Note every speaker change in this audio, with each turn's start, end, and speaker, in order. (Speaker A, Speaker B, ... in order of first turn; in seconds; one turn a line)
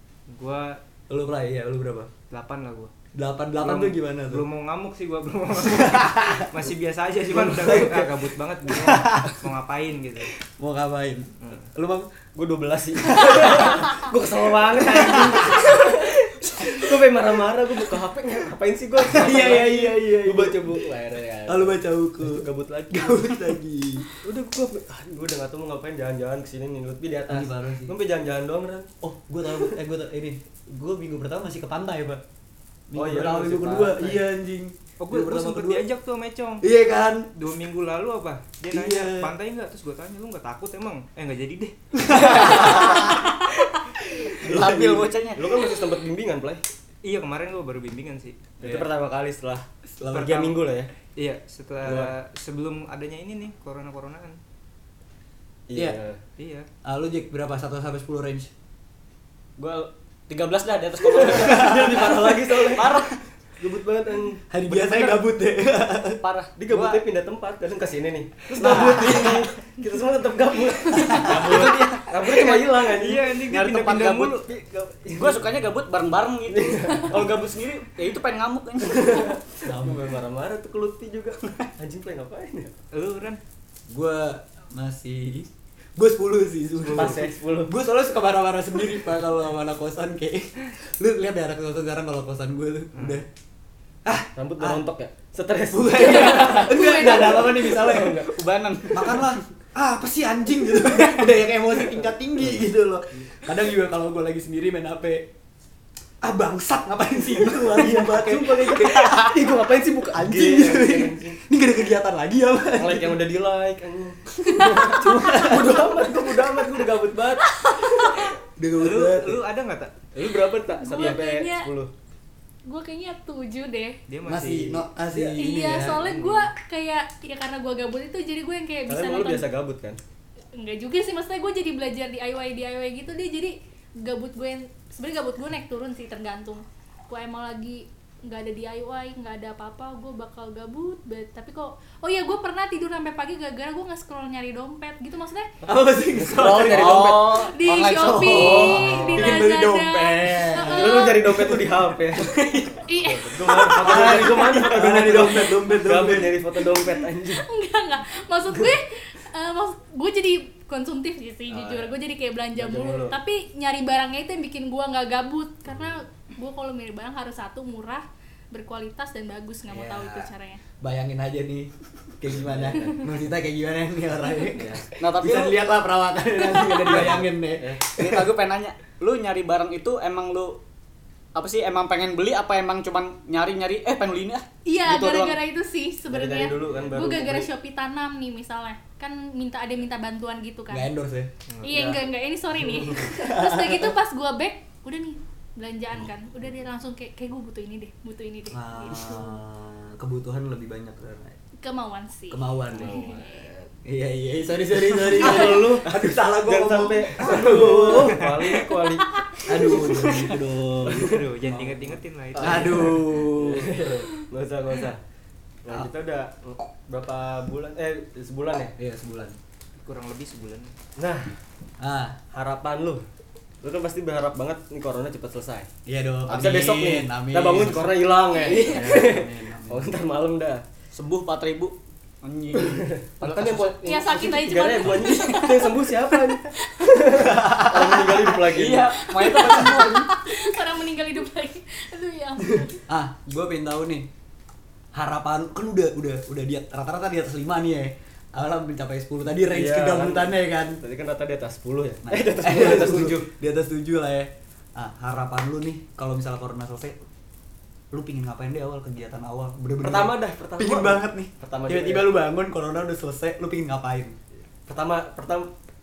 Speaker A: 0.3-0.8
Speaker B: 1.1-2.1
Speaker A: 2.3-2.9
Speaker B: 3.1-4.5
Speaker A: 3.6-10.3
Speaker B: 5.6-6.5
Speaker C: 7.3-8.2
Speaker B: 8.7-9.4
Speaker B: 10.4-12.1
Speaker A: 11.4-11.7
Speaker C: 12.3-23.3
Speaker B: 13.1-13.9
Speaker B: 14.8-16.9
Speaker B: 19.0-20.8
Speaker B: 21.4-24.1
Speaker C: 24.2-28.9
Speaker B: 27.3-27.9
Speaker B: 29.0-32.2
Speaker C: 29.5-29.7
Speaker B: 32.9-35.9
Speaker C: 32.9-34.2
Speaker A: 35.0-36.6
Speaker B: 36.6-37.3
Speaker A: 37.3-43.3
Speaker B: 38.7-39.3
Speaker B: 42.0-43.4
Speaker D: 42.2-43.1
Speaker B: 44.1-45.0
Speaker D: 44.4-45.6
Speaker C: 44.5-46.6
Speaker A: 47.0-48.4
Speaker C: 48.6-50.9
Speaker B: 48.6-48.9
Speaker B: 50.0-50.5
Speaker A: 50.1-50.5
Speaker A: 51.1-54.4
Speaker C: 51.8-52.1
Speaker C: 55.7-56.2
Speaker A: 56.4-56.7
Speaker B: 56.8-58.5
Speaker D: 59.6-62.0
Speaker C: 61.1-64.5
Speaker B: 61.3-62.9
Speaker D: 62.7-63.1
Speaker B: 64.5-66.2
Speaker D: 64.7-65.2
Speaker D: 66.2-67.0
Speaker C: 66.5-73.3
Speaker D: 68.5-69.5
Speaker B: 68.6-69.4
Speaker D: 71.0-72.3
Speaker A: 72.2-74.5
Speaker D: 73.5-74.4
Speaker C: 74.4-75.5
Speaker D: 75.1-79.4
Speaker C: 76.5-77.5
Speaker C: 78.8-82.7
Speaker B: 79.6-80.1
Speaker A: 82.9-83.4
Speaker B: 83.9-93.3
Speaker A: 86.8-87.2
Speaker C: 86.9-87.7
Speaker A: 92.9-93.2
Speaker B: 94.0-94.8
Speaker C: 94.3-98.4
Speaker B: 95.7-98.3
Speaker D: 96.1-99.4
Speaker E: 96.7-97.3
Speaker B: 98.9-105.3
Speaker B: 106.2-113.2
Speaker C: 107.6-111.4
Speaker C: 112.8-118.2
Speaker E: 114.5-115.0
Speaker B: 114.8-116.1
Speaker E: 117.4-118.3
Speaker B: 118.6-119.4
Speaker A: 118.8-119.9
Speaker C: 120.1-121.9
Speaker E: 120.7-121.7
Speaker E: 122.7-124.0
Speaker A: 124.1-124.8
Speaker B: 124.2-126.1
Speaker C: 125.1-125.4
Speaker E: 125.4-129.5
Speaker A: 125.8-126.5
Speaker C: 128.9-130.0
Speaker E: 130.5-145.5
Speaker B: 145.6-152.8
Speaker C: 146.1-147.5
Speaker D: 146.6-148.8
Speaker E: 147.3-151.2
Speaker C: 148.8-149.4
Speaker C: 150.6-157.4
Speaker E: 152.9-154.2
Speaker B: 153.5-156.4
Speaker E: 157.3-170.6
Speaker C: 161.5-161.9
Speaker C: 162.6-163.2
Speaker B: 169.7-170.3
Speaker B: 170.8-178.3
Speaker C: 172.3-173.1
Speaker C: 174.5-174.9
Speaker D: 175.0-175.6
Speaker E: 176.5-176.8
Speaker C: 176.8-177.8
Speaker D: 177.9-180.6
Speaker D: 181.3-185.4
Speaker E: 184.6-190.9
Speaker C: 186.1-187.5
Speaker B: 190.7-191.3
Speaker A: 191.5-192.0
Speaker E: 191.6-199.4
Speaker B: 193.1-193.9
Speaker B: 198.5-201.3
Speaker E: 201.6-203.5
Speaker B: 202.3-203.1
Speaker C: 202.7-203.7
Speaker B: 203.8-208.3
Speaker C: 204.4-210.0
Speaker E: 205.2-205.6
Speaker B: 209.4-213.8
Speaker D: 209.9-210.4
Speaker C: 210.8-211.6
Speaker A: 210.8-212.9
Speaker C: 212.3-215.0
Speaker C: 215.6-218.7
Speaker B: 218.8-219.4
Speaker A: 219.8-220.7
Speaker C: 221.0-221.4
Speaker B: 221.8-222.2
Speaker C: 222.3-223.0
Speaker C: 223.6-225.7
Speaker B: 225.8-228.0
Speaker C: 226.3-230.6
Speaker E: 228.2-228.9
Speaker B: 228.5-229.9
Speaker D: 230.9-233.8
Speaker C: 232.6-239.1
Speaker E: 233.8-237.0
Speaker B: 237.2-238.0
Speaker D: 238.4-240.1
Speaker E: 238.9-242.8
Speaker B: 242.9-244.1
Speaker B: 244.9-250.8
Speaker C: 249.5-253.3
Speaker B: 252.0-256.9
Speaker B: 257.9-264.2
Speaker C: 259.8-262.1
Speaker C: 264.7-265.5